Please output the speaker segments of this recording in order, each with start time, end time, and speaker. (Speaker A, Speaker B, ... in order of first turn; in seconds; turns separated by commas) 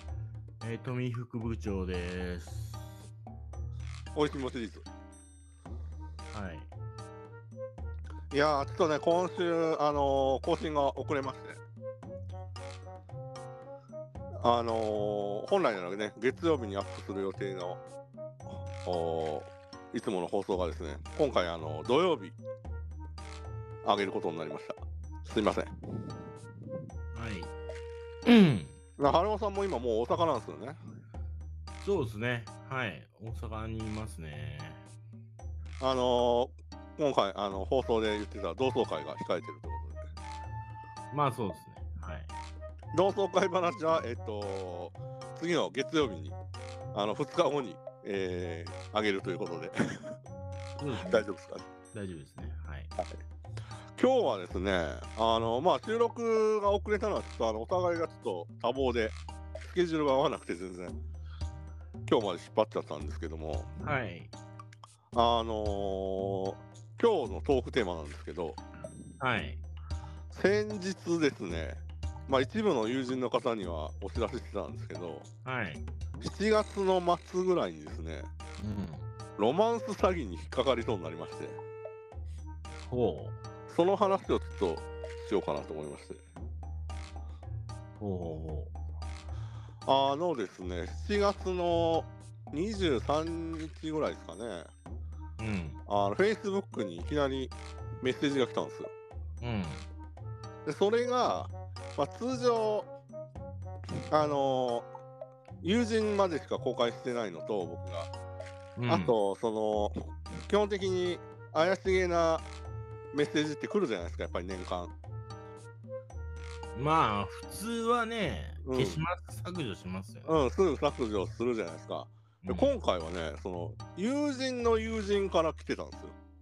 Speaker A: 0.6-2.9, Speaker B: 4.1-4.9, Speaker A: 6.3-6.7, Speaker B: 8.3-11.6, Speaker B: 14.4-17.8, Speaker B: 18.8-22.4, Speaker B: 23.8-25.7, Speaker A: 27.1-27.5, Speaker A: 28.2-28.7, Speaker B: 29.0-30.8, Speaker A: 31.8-34.8, Speaker B: 35.8-40.0, Speaker A: 41.1-42.3, Speaker B: 42.9-46.4, Speaker B: 46.9-49.7, Speaker A: 50.8-51.3, Speaker B: 51.1-51.7, Speaker A: 51.9-52.9, Speaker B: 54.0-61.0, Speaker B: 62.0-63.7, Speaker A: 63.8-64.3, Speaker B: 65.1-68.6, Speaker A: 69.2-69.6, Speaker B: 70.3-75.3, Speaker A: 75.4-75.8, Speaker B: 76.2-78.3, Speaker A: 78.6-79.0, Speaker B: 79.4-81.6, Speaker A: 82.9-83.4, Speaker B: 83.7-86.2, Speaker A: 88.0-88.7, Speaker B: 89.8-94.7, Speaker A: 95.4-95.8, Speaker B: 95.9-98.9, Speaker A: 99.4-99.8, Speaker B: 100.7-102.9, Speaker B: 104.1-104.9, Speaker B: 105.6-108.1, Speaker A: 108.8-109.1, Speaker B: 108.9-112.5, Speaker B: 113.1-114.9, Speaker A: 116.7-120.4, Speaker B: 118.6-119.0, Speaker B: 120.2-126.1, Speaker A: 122.4-122.7